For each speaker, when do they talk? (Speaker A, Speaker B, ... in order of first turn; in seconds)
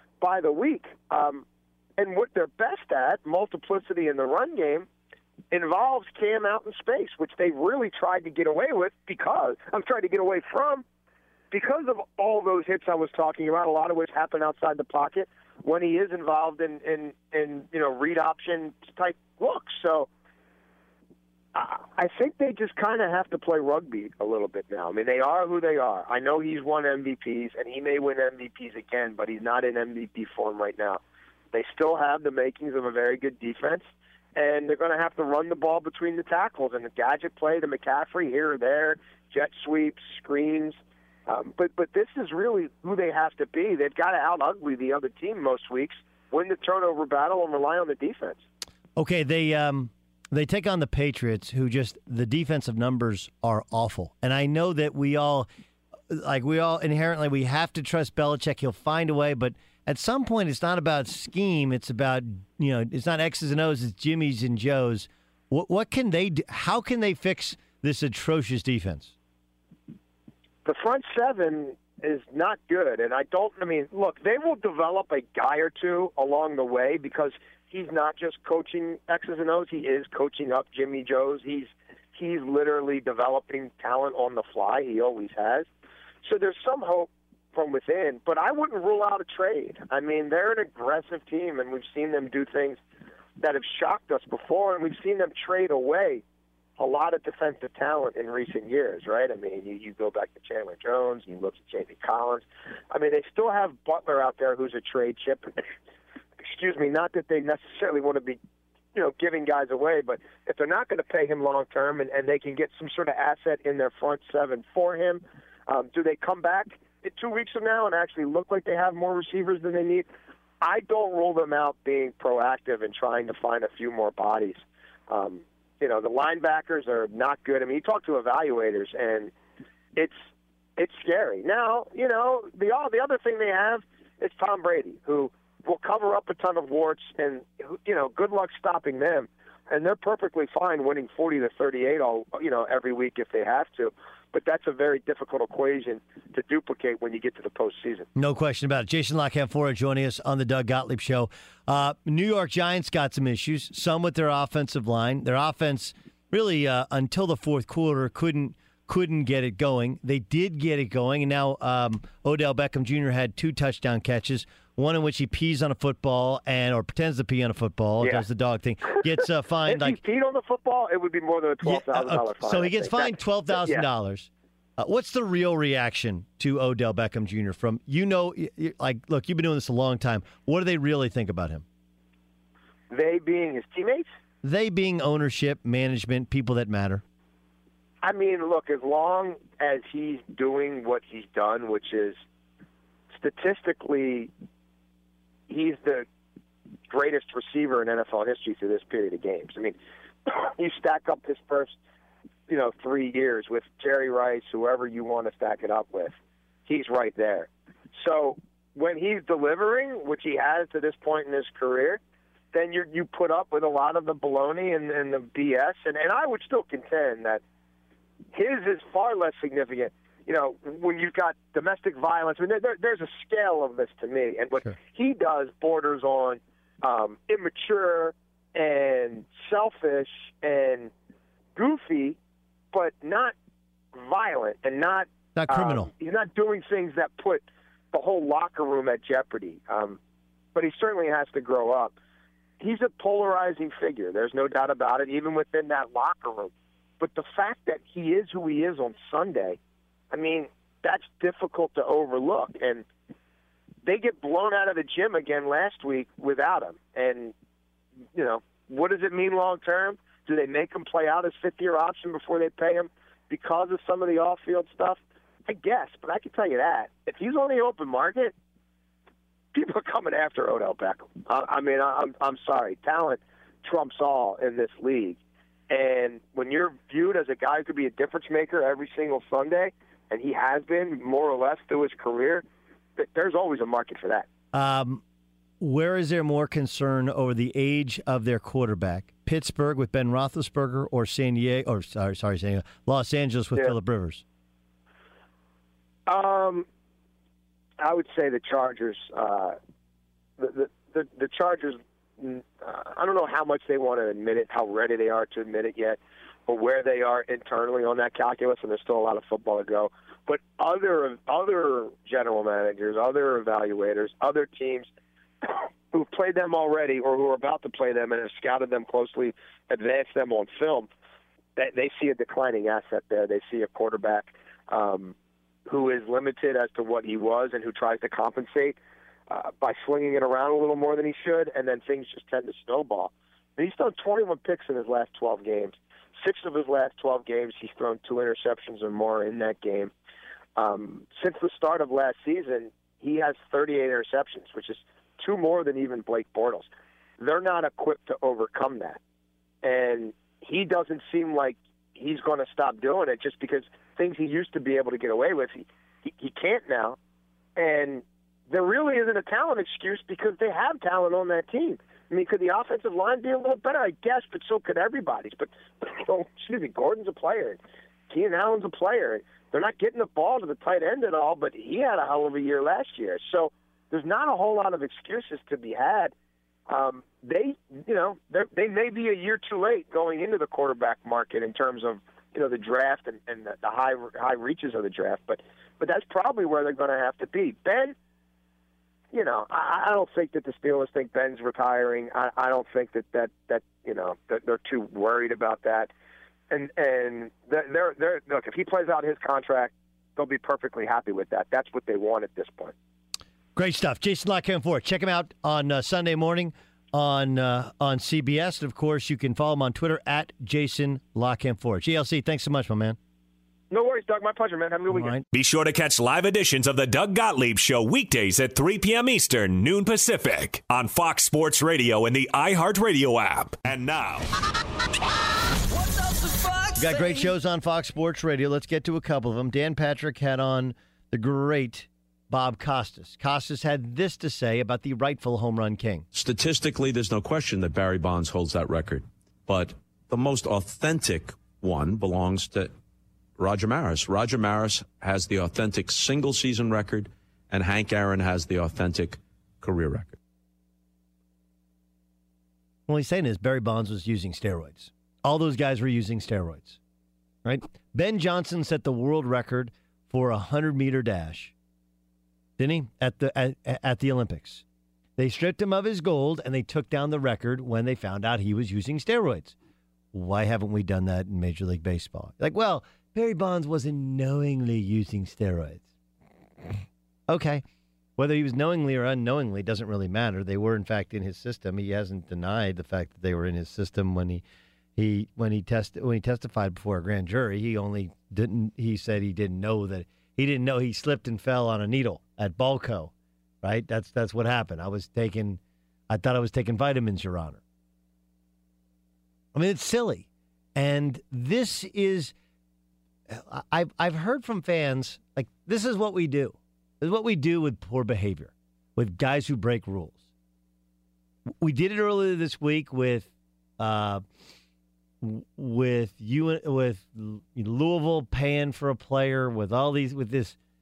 Speaker A: 0.2-1.4, 2.0-4.9, 5.5-10.8, 11.5-20.1, 21.5-31.0, 31.5-33.8, 34.4-48.4, 70.6-85.7, 86.2-92.8, 93.4-96.2, 96.8-105.7, 106.4-108.4, 108.9-120.1, 120.6-129.3, 130.8-148.1, 169.7-173.8, 182.9-184.1, 188.0-192.2, 193.1-194.3, 195.5-196.1, 196.9-201.7, 202.5-206.1, 206.7-212.0, 212.5-217.4, 218.3-230.9, 231.6-232.2, 232.7-233.3, 233.9-240.0, 240.5-241.9, 242.6-249.6, 250.1-252.8, 253.8-257.3, 258.1-268.3, 269.5-282.4, 283.0-284.3, 296.1-296.7, 297.8-299.6, 300.4-314.9, 315.4-320.9, 321.6-325.1, 325.7-328.8, 329.3-339.9, 340.6-346.7, 347.2-349.0, 349.6-357.0, 357.6-367.6, 368.1-376.1, 376.7-387.9, 389.1-395.9, 396.5-402.7, 413.7-415.1
Speaker B: 49.0-55.5, 56.1-69.1, 148.1-170.0, 171.6-181.6, 184.4-187.0, 235.3-235.9, 284.5-285.0, 285.6-294.2, 403.5-413.0, 414.9-415.2, 426.8-436.0, 452.9-456.8, 457.4-461.5, 462.6-464.6, 465.2-469.5, 470.1-475.8, 477.3-477.6, 478.2-484.4, 485.0-493.1, 493.6-497.6, 499.5-502.3, 503.3-510.2, 511.6-514.2, 515.2-520.6
Speaker C: 415.3-424.2
Speaker D: 436.1-442.7, 443.4-450.1